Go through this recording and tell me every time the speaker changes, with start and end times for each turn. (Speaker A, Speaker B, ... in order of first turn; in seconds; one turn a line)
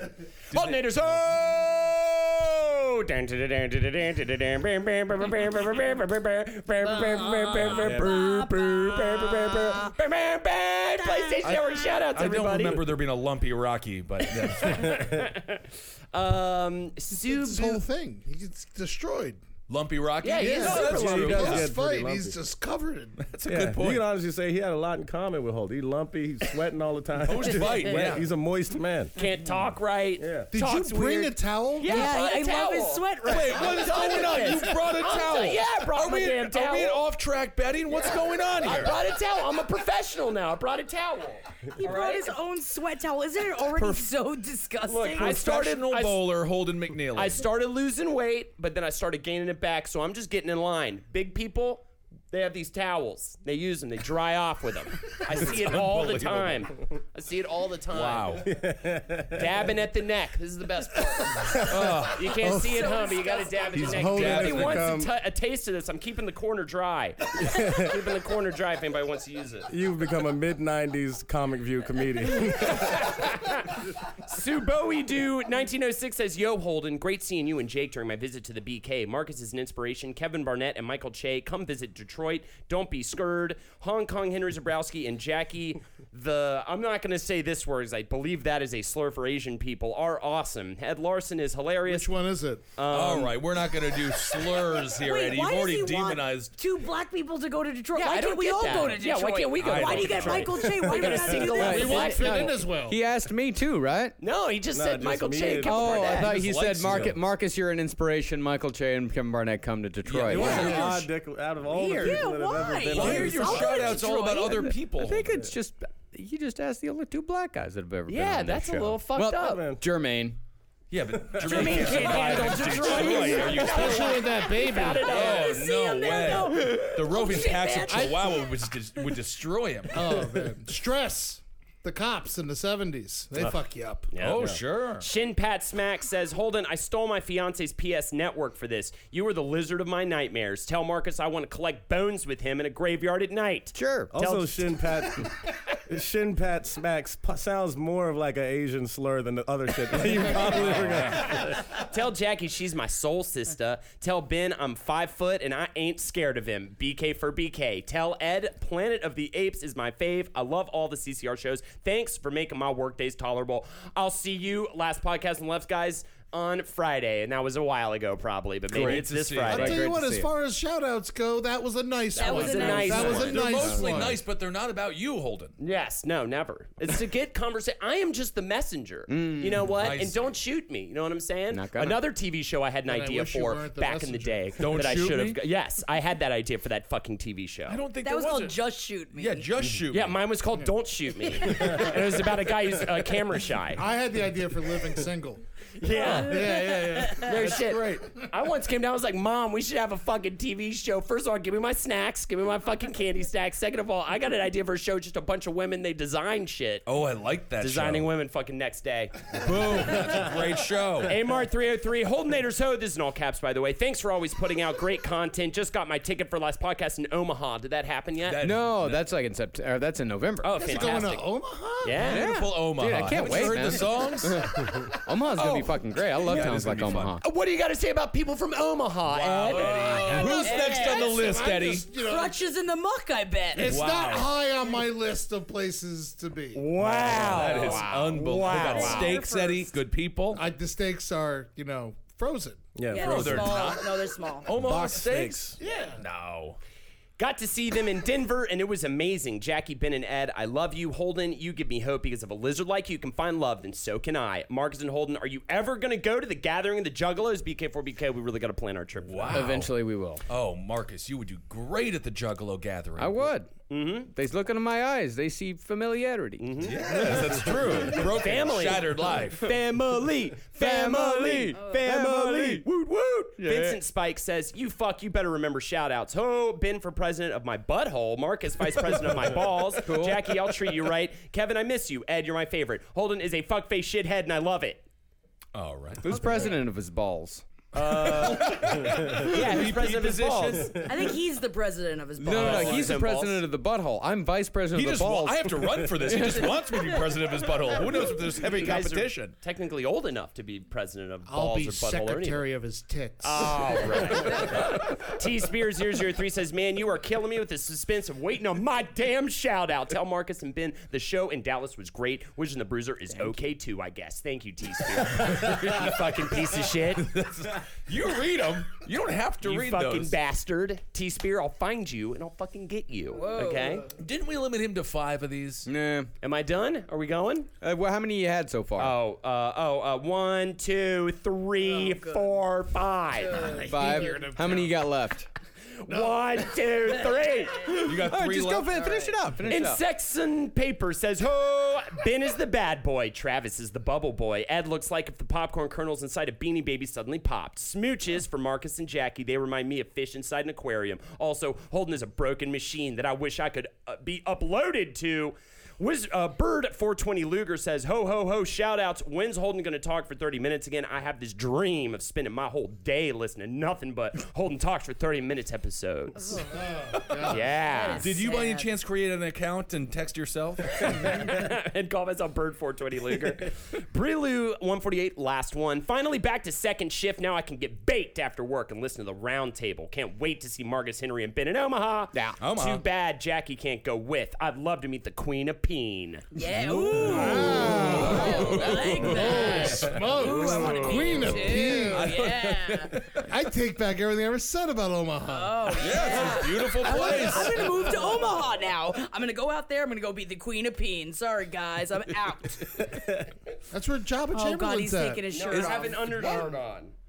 Speaker A: 0.5-12.8
Speaker B: 0.5-0.8
Speaker C: 6.9-9.9
Speaker B: 7.7-7.9
Speaker D: 7.7-8.2
Speaker C: 11.0-11.5
Speaker B: 11.4-15.1
Speaker A: 14.6-17.8
Speaker D: 14.7-15.2
Speaker E: 17.1-19.4
Speaker B: 19.7-21.7
Speaker A: 20.2-21.6
Speaker E: 20.4-23.3
Speaker D: 20.8-22.4
Speaker B: 23.2-24.0
Speaker D: 23.5-29.1
Speaker B: 27.2-28.3
Speaker A: 29.1-37.0
Speaker D: 30.2-30.5
Speaker E: 30.5-32.1
Speaker C: 31.9-34.4
Speaker B: 33.2-39.0
Speaker A: 38.6-42.3
Speaker C: 41.8-45.4
Speaker B: 43.8-44.0
Speaker D: 44.9-45.2
Speaker A: 45.1-46.2
Speaker B: 45.2-47.4
Speaker A: 47.1-58.4
Speaker B: 55.3-56.6
Speaker B: 57.9-58.5
Speaker D: 58.4-59.7
Speaker A: 59.3-69.7
Speaker D: 61.4-62.1
Speaker B: 61.6-62.5
Speaker C: 62.4-64.3
Speaker B: 63.7-64.9
Speaker E: 64.0-64.7
Speaker D: 64.2-65.1
Speaker D: 67.4-67.9
Speaker D: 69.7-73.1
Speaker A: 72.6-92.1
Speaker E: 91.9-92.6
Speaker A: 92.7-93.3
Speaker B: 92.9-96.5
Speaker C: 94.9-102.5
Speaker A: 97.9-102.5
Speaker B: 99.6-100.7
Speaker D: 100.7-101.6
Speaker E: 101.5-103.0
Speaker F: 101.6-104.2
Speaker A: 104.2-106.3
Speaker D: 104.7-106.2
Speaker F: 105.6-110.9
Speaker B: 106.2-107.1
Speaker D: 110.1-113.9
Speaker B: 110.2-111.1
Speaker A: 111.7-112.2
Speaker C: 111.8-114.7
Speaker B: 112.8-115.4
Speaker F: 114.5-120.4
Speaker A: 118.1-119.6
Speaker D: 119.4-119.8
Speaker B: 120.9-124.3
Speaker D: 121.2-122.1
Speaker C: 121.4-128.4
Speaker A: 121.5-125.8
Speaker E: 123.3-125.2
Speaker B: 125.0-130.1
Speaker E: 129.9-134.1
Speaker A: 134.1-144.8
Speaker B: 134.2-135.1
Speaker F: 143.7-144.1
Speaker D: 144.1-151.6
Speaker B: 150.2-151.3
Speaker A: 151.3-169.8
Speaker B: 168.7-169.7
Speaker F: 168.8-170.3
Speaker E: 169.5-174.2
Speaker C: 172.1-173.5
Speaker A: 172.1-173.7
Speaker B: 173.0-175.6
Speaker A: 175.6-187.8
Speaker F: 179.1-179.7
Speaker B: 179.7-180.3
Speaker F: 181.5-182.0
Speaker E: 182.8-184.8
Speaker B: 184.6-185.4
Speaker B: 187.7-188.6
Speaker C: 188.0-189.5
Speaker B: 189.1-190.2
Speaker A: 189.9-193.8
Speaker D: 191.6-191.9
Speaker E: 193.8-195.4
Speaker A: 195.8-206.8
Speaker C: 195.9-196.5
Speaker E: 195.9-197.6
Speaker B: 197.3-198.1
Speaker B: 206.8-208.1
Speaker A: 207.6-210.0
Speaker B: 209.3-211.2
Speaker A: 211.0-218.4
Speaker B: 218.2-219.0
Speaker F: 218.4-220.5
Speaker A: 220.4-221.3
Speaker E: 220.5-222.1
Speaker A: 221.8-222.3
Speaker B: 222.0-224.5
Speaker F: 222.0-227.2
Speaker B: 226.2-227.2
Speaker A: 227.2-230.4
Speaker B: 229.1-231.9
Speaker E: 229.5-232.4
Speaker C: 229.9-233.8
Speaker E: 233.5-236.7
Speaker B: 233.7-234.3
Speaker A: 236.5-239.2
Speaker D: 236.8-237.7
Speaker B: 237.1-240.4
Speaker C: 238.4-239.7
Speaker E: 240.3-242.7
Speaker D: 242.7-243.6
Speaker C: 242.9-244.5
Speaker B: 242.9-246.6
Speaker D: 244.5-245.5
Speaker E: 245.6-246.0
Speaker A: 247.2-259.6
Speaker B: 259.0-259.7
Speaker F: 259.3-260.2
Speaker B: 260.3-263.3
Speaker F: 263.0-263.5
Speaker A: 263.7-264.1
Speaker F: 264.1-266.5
Speaker A: 266.4-266.9
Speaker B: 266.6-269.5
Speaker A: 267.9-284.8
Speaker F: 270.6-272.6
Speaker F: 273.4-273.8
Speaker F: 279.8-280.3
Speaker B: 285.5-286.0
Speaker F: 286.0-287.4
Speaker A: 287.7-290.8
Speaker B: 287.8-290.8
Speaker D: 288.8-289.3
Speaker C: 290.8-292.9
Speaker F: 292.2-296.6
Speaker A: 292.3-293.4
Speaker B: 292.5-292.8
Speaker B: 294.7-299.3
Speaker A: 298.4-302.4
Speaker E: 301.2-304.4
Speaker A: 303.2-317.1
Speaker B: 315.2-315.5
Speaker B: 317.0-320.1
Speaker A: 319.4-323.9
Speaker C: 323.1-323.8
Speaker B: 324.0-325.7
Speaker F: 325.6-326.1
Speaker A: 326.2-327.5
Speaker F: 327.6-329.0
Speaker A: 328.8-333.5
Speaker C: 331.7-332.2
Speaker E: 333.3-334.8
Speaker F: 333.6-335.3
Speaker A: 335.8-337.8
Speaker E: 335.9-336.4
Speaker B: 337.7-338.9
Speaker F: 337.9-339.8
Speaker A: 339.5-366.4
Speaker C: 366.3-366.6
Speaker E: 366.4-367.4
Speaker B: 367.1-367.3
Speaker A: 367.2-368.1
Speaker C: 367.5-368.7
Speaker B: 367.9-371.2
Speaker A: 370.8-386.2
Speaker F: 382.1-382.4
Speaker B: 382.4-382.8
Speaker C: 386.3-393.0
Speaker B: 386.6-393.3
Speaker E: 387.0-392.2
Speaker E: 393.2-397.8
Speaker C: 395.3-402.9
Speaker B: 395.7-398.0
Speaker D: 402.8-403.2
Speaker E: 403.7-405.2
Speaker C: 404.3-406.5
Speaker A: 405.3-406.9
Speaker B: 405.5-405.8